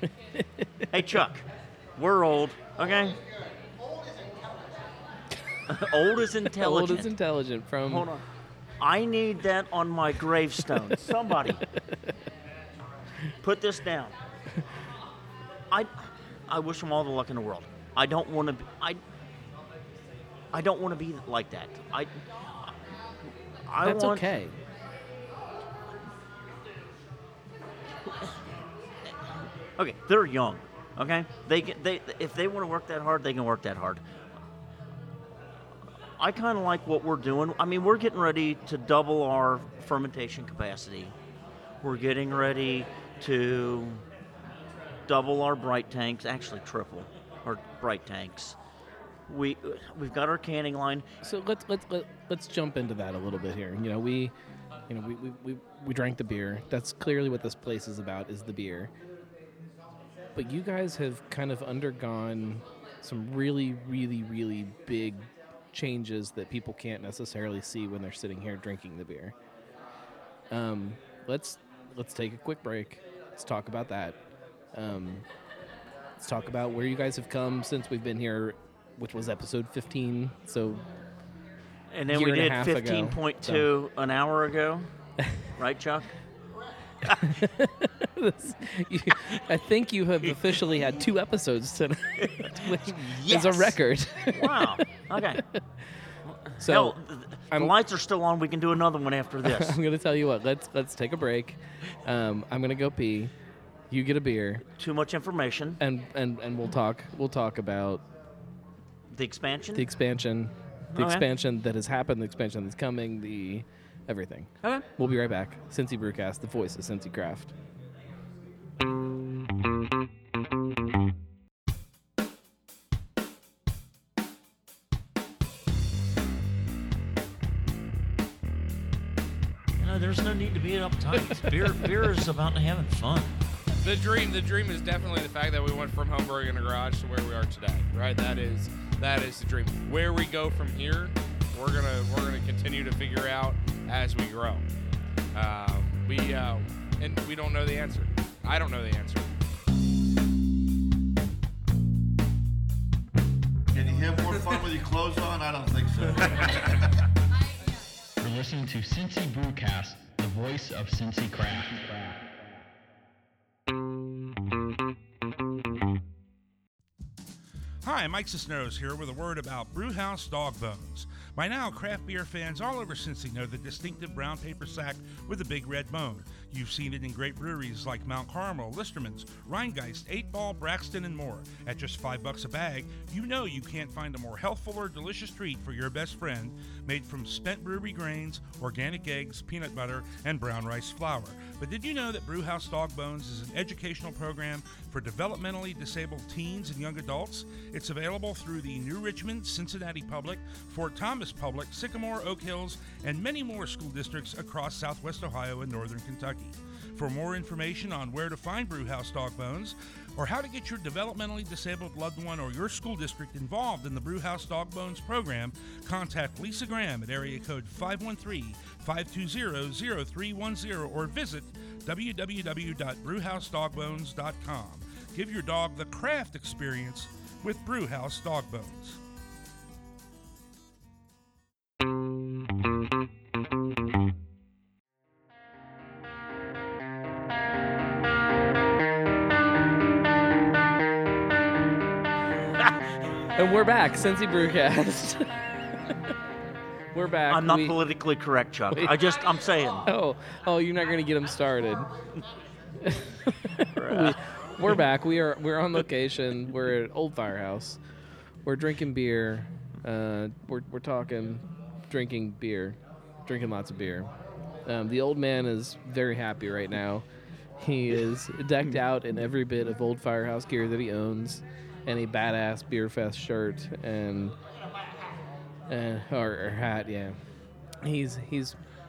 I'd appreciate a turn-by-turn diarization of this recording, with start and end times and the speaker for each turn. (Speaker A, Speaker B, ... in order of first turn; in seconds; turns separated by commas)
Speaker A: 0.3-0.8, Speaker B: 0.9-3.2, Speaker B: 5.7-7.1, Speaker A: 6.6-8.1, Speaker B: 7.8-8.2, Speaker B: 8.8-11.6, Speaker B: 13.4-14.2, Speaker B: 15.7-19.0, Speaker B: 20.5-22.8, Speaker B: 23.7-24.3, Speaker A: 23.8-24.6, Speaker B: 28.1-28.4, Speaker B: 29.8-34.0, Speaker B: 36.2-41.1, Speaker B: 41.8-44.0, Speaker B: 45.1-48.6, Speaker B: 49.3-51.0, Speaker A: 51.2-54.3, Speaker A: 54.9-58.9, Speaker A: 60.4-69.3, Speaker A: 70.5-74.2, Speaker A: 74.7-75.2, Speaker A: 76.2-80.8, Speaker B: 81.9-84.9, Speaker A: 82.1-83.7, Speaker B: 85.5-86.1, Speaker B: 87.0-87.4, Speaker A: 87.2-95.6, Speaker B: 90.2-90.8, Speaker B: 92.2-93.8, Speaker B: 94.3-95.4, Speaker B: 96.2-99.8, Speaker A: 96.6-96.9, Speaker A: 99.4-103.3, Speaker A: 103.9-104.6, Speaker B: 104.7-105.8, Speaker A: 105.8-108.0, Speaker B: 109.1-109.9, Speaker A: 109.7-117.5, Speaker B: 110.9-111.3, Speaker B: 129.8-133.4, Speaker C: 133.8-144.7, Speaker C: 145.3-149.3, Speaker D: 153.7-156.8, Speaker E: 158.2-162.2, Speaker F: 167.8-229.0, Speaker A: 243.3-245.4, Speaker A: 246.9-247.8, Speaker B: 247.3-249.9, Speaker A: 249.8-251.9, Speaker A: 252.8-257.8, Speaker B: 253.6-254.8, Speaker A: 258.4-264.1, Speaker A: 264.6-267.0, Speaker A: 267.6-274.4, Speaker A: 275.7-277.2, Speaker A: 277.8-278.6